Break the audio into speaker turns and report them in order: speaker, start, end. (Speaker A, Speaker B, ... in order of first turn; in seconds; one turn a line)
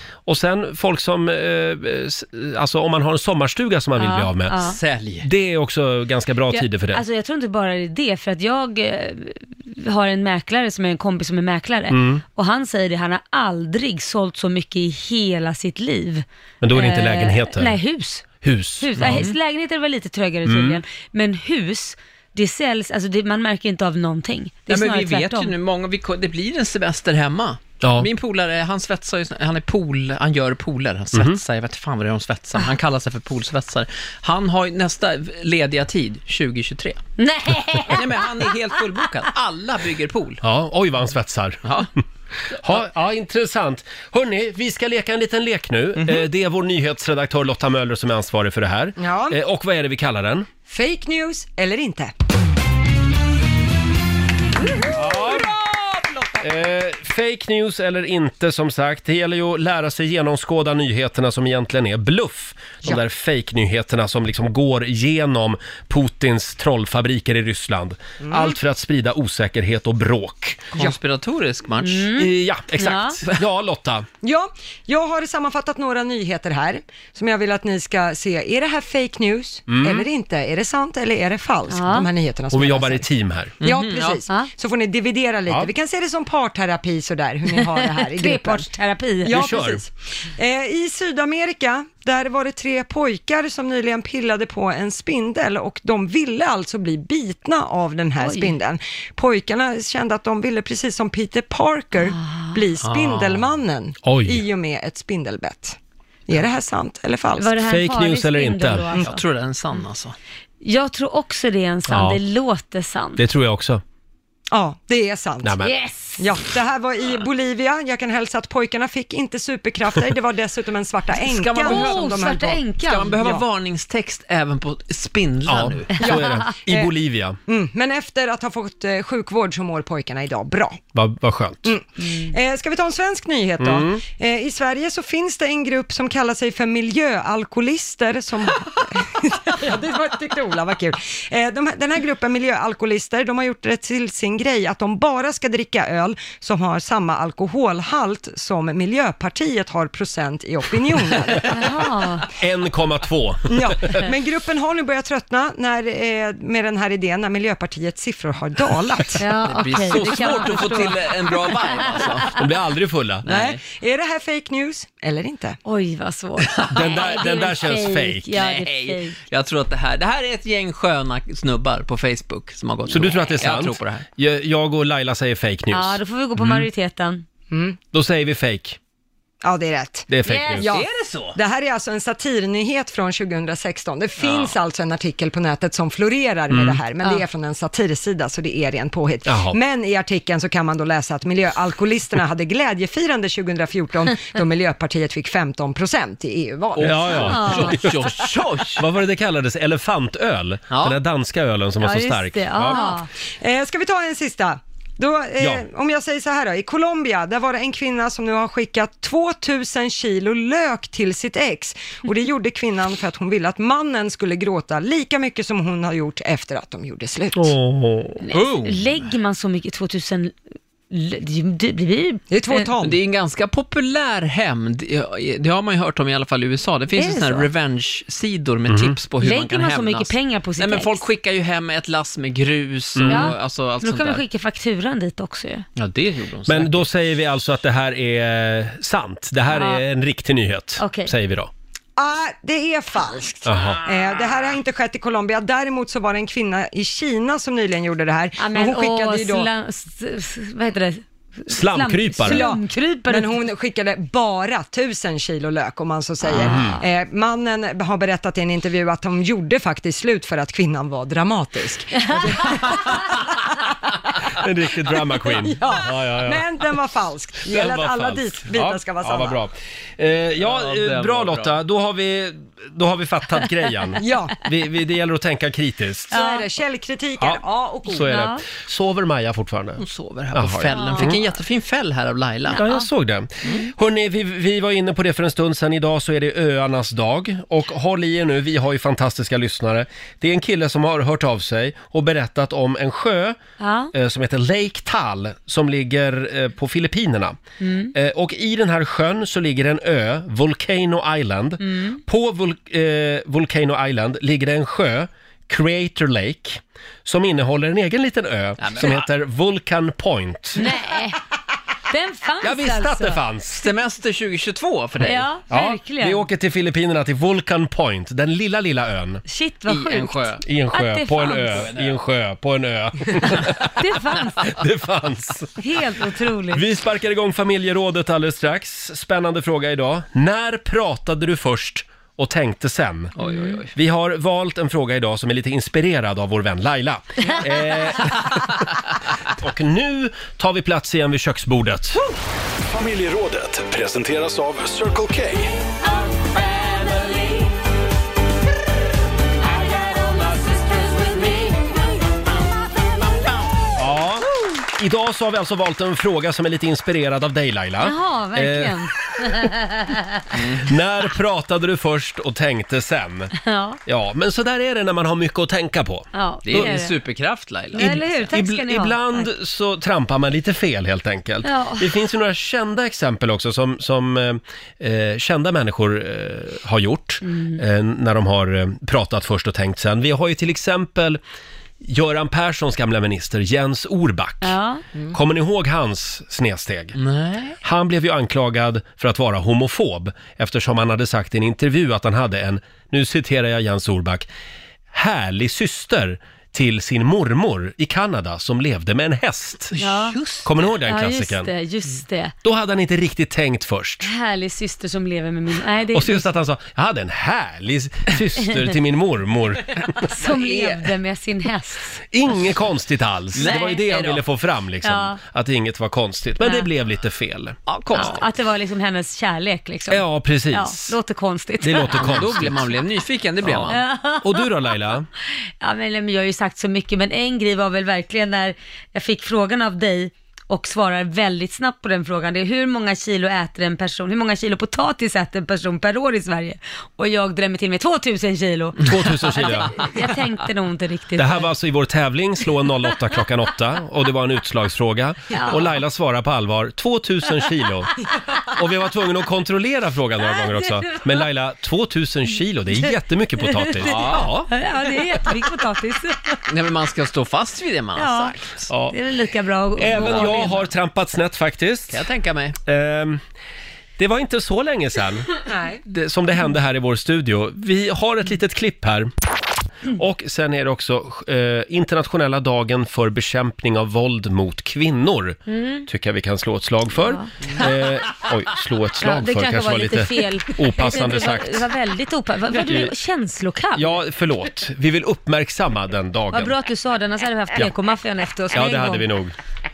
Speaker A: 0.3-4.6
Speaker B: 4.0-4.8
Speaker C: 4.6-5.3
Speaker A: 5.2-7.0
Speaker B: 6.5-18.3
Speaker A: 11.9-12.2
Speaker A: 16.6-17.8
Speaker A: 18.4-19.3
Speaker B: 18.8-25.5
Speaker C: 19.0-19.4
Speaker A: 20.4-20.8
Speaker C: 24.7-37.0
Speaker A: 27.8-28.1
Speaker A: 31.1-31.4
Speaker B: 37.2-38.5
Speaker C: 37.9-40.4
Speaker A: 40.4-41.6
Speaker C: 41.6-41.9
Speaker A: 42.5-50.5
Speaker C: 46.0-46.2
Speaker D: 49.0-49.4
Speaker D: 50.7-52.1
Speaker A: 54.9-55.5
Speaker A: 56.4-70.7
Speaker D: 68.2-68.6
Speaker C: 70.7-72.1
Speaker B: 71.8-73.2
Speaker A: 72.2-74.1
Speaker D: 74.2-83.1
Speaker A: 79.7-80.1
Speaker B: 81.7-82.1
Speaker A: 82.5-83.6
Speaker C: 83.6-84.2
Speaker D: 83.6-88.7
Speaker B: 87.6-89.5
Speaker D: 89.2-105.8
Speaker A: 89.3-89.8
Speaker B: 98.2-98.5
Speaker B: 102.0-102.6
Speaker C: 102.8-103.4
Speaker A: 104.0-104.5
Speaker D: 106.3-107.5
Speaker B: 107.4-109.2
Speaker A: 107.7-108.9
Speaker C: 109.0-110.2
Speaker B: 110.6-113.2
Speaker A: 111.9-112.2
Speaker A: 113.2-113.8
Speaker D: 114.5-115.6
Speaker A: 115.4-115.7
Speaker B: 115.6-116.3
Speaker D: 116.2-122.6
Speaker C: 121.2-122.0
Speaker B: 121.6-123.3
Speaker C: 122.8-125.9
Speaker A: 125.5-127.4
Speaker D: 126.0-126.9
Speaker D: 127.5-130.8
Speaker A: 130.9-131.7
Speaker D: 131.6-151.7
Speaker B: 132.1-132.3
Speaker A: 133.6-134.0
Speaker B: 151.5-152.3
Speaker A: 152.4-154.1
Speaker D: 153.5-159.3
Speaker B: 159.2-162.3
Speaker C: 159.4-162.4
Speaker A: 162.3-163.3
Speaker C: 163.2-163.6
Speaker D: 163.3-165.6
Speaker B: 165.7-169.2
Speaker C: 166.5-167.0
Speaker A: 166.7-168.3
Speaker C: 168.3-174.1
Speaker A: 172.9-176.7
Speaker B: 175.7-177.2
Speaker D: 177.5-177.8
Speaker A: 177.9-178.8
Speaker D: 179.4-197.4
Speaker A: 180.1-180.7
Speaker C: 180.3-181.4
Speaker C: 184.2-184.5
Speaker A: 186.5-186.8
Speaker A: 189.3-189.6
Speaker C: 196.8-198.9
Speaker A: 196.8-202.8
Speaker B: 197.2-197.8
Speaker C: 200.7-201.0
Speaker B: 201.8-203.1
Speaker D: 202.7-217.6
Speaker A: 205.4-205.6
Speaker A: 217.3-218.2
Speaker B: 218.3-220.4
Speaker C: 218.3-219.1
Speaker B: 220.9-222.7
Speaker D: 222.3-223.0
Speaker C: 222.8-234.2
Speaker B: 227.0-227.5
Speaker A: 228.7-229.0
Speaker B: 229.2-231.1
Speaker A: 233.0-233.3
Speaker B: 233.1-235.7
Speaker C: 235.8-236.9
Speaker A: 236.5-241.5
Speaker B: 239.5-239.8
Speaker B: 240.8-241.1
Speaker D: 242.0-249.5
Speaker A: 243.4-243.8
Speaker B: 248.4-253.3
Speaker A: 251.5-252.4
Speaker D: 252.3-263.3
Speaker B: 256.4-256.6
Speaker A: 256.4-256.8
Speaker B: 262.2-262.6
Speaker A: 264.2-266.4
Speaker D: 265.3-269.4
Speaker A: 267.5-276.1
Speaker C: 270.4-271.6
Speaker D: 274.0-274.4
Speaker D: 276.1-278.1
Speaker B: 276.1-276.5
Speaker A: 277.2-279.8
Speaker B: 278.1-278.4
Speaker C: 279.8-282.6
Speaker A: 280.3-281.2
Speaker B: 280.7-281.1
Speaker A: 282.5-293.4
Speaker B: 282.6-282.9
Speaker B: 293.6-293.9
Speaker A: 293.9-297.4
Speaker B: 297.6-297.9
Speaker A: 297.9-310.6
Speaker B: 301.6-302.0
Speaker C: 308.6-309.1
Speaker B: 310.6-311.2
Speaker B: 311.9-313.2
Speaker A: 312.4-313.7
Speaker C: 313.5-315.3
Speaker B: 315.0-316.3
Speaker A: 315.5-319.2
Speaker B: 319.3-321.7
Speaker C: 319.7-320.4
Speaker A: 320.4-323.8
Speaker C: 321.5-322.0
Speaker B: 323.8-324.5
Speaker A: 324.5-325.6
Speaker B: 325.6-326.6
Speaker A: 326.5-333.1
Speaker C: 333.2-333.7
Speaker B: 333.2-333.6
Speaker A: 333.7-338.6
Speaker A: 339.3-342.0
Speaker E: 342.7-345.6
Speaker B: 346.1-347.3
Speaker B: 349.6-351.7
Speaker A: 353.8-358.8
Speaker B: 357.8-360.2
Speaker C: 360.3-360.8
Speaker A: 360.6-363.3
Speaker B: 363.4-363.8
Speaker A: 363.9-366.7
Speaker B: 366.1-367.0
Speaker C: 366.4-368.1
Speaker B: 367.8-369.3
Speaker A: 367.8-381.2
Speaker B: 371.4-371.9
Speaker B: 377.2-377.6
Speaker A: 381.8-384.6
Speaker B: 384.4-384.8
Speaker A: 385.1-387.0
Speaker C: 386.9-387.6
Speaker A: 387.6-394.3
Speaker A: 394.9-399.8
Speaker C: 399.8-400.5
Speaker B: 399.8-400.2
Speaker A: 400.4-401.5
Speaker B: 400.8-402.4
Speaker A: 402.4-404.1
Speaker B: 404.0-406.3
Speaker A: 405.9-410.1
Speaker B: 410.0-412.1
Speaker C: 410.0-410.9
Speaker A: 412.1-417.6
Speaker C: 413.3-414.2
Speaker B: 413.4-413.8
Speaker B: 414.8-415.2
Speaker B: 416.4-416.7
Speaker C: 417.7-418.3
Speaker B: 417.9-422.2
Speaker A: 419.9-421.0
Speaker A: 421.6-422.7
Speaker C: 421.9-423.8
Speaker A: 423.4-425.1
Speaker B: 423.7-424.7
Speaker B: 425.6-441.5
Speaker A: 438.8-439.8
Speaker A: 441.2-447.9
Speaker B: 445.3-445.8
Speaker A: 448.5-454.5
Speaker B: 450.2-451.1
Speaker B: 453.5-456.4
Speaker C: 453.8-454.4
Speaker C: 456.5-458.7
Speaker B: 458.0-460.7
Speaker A: 458.7-458.9
Speaker A: 459.8-462.0
Speaker C: 459.9-460.4
Speaker C: 461.9-462.6
Speaker A: 462.6-463.2
Speaker A: 464.0-465.3
Speaker D: 465.5-465.8
Speaker A: 465.9-469.1
Speaker A: 469.9-481.7
Speaker B: 475.5-475.9
Speaker B: 477.0-477.7
Speaker B: 479.0-484.0
Speaker A: 482.5-482.9
Speaker A: 483.8-486.6
Speaker B: 486.3-489.1
Speaker A: 488.5-489.3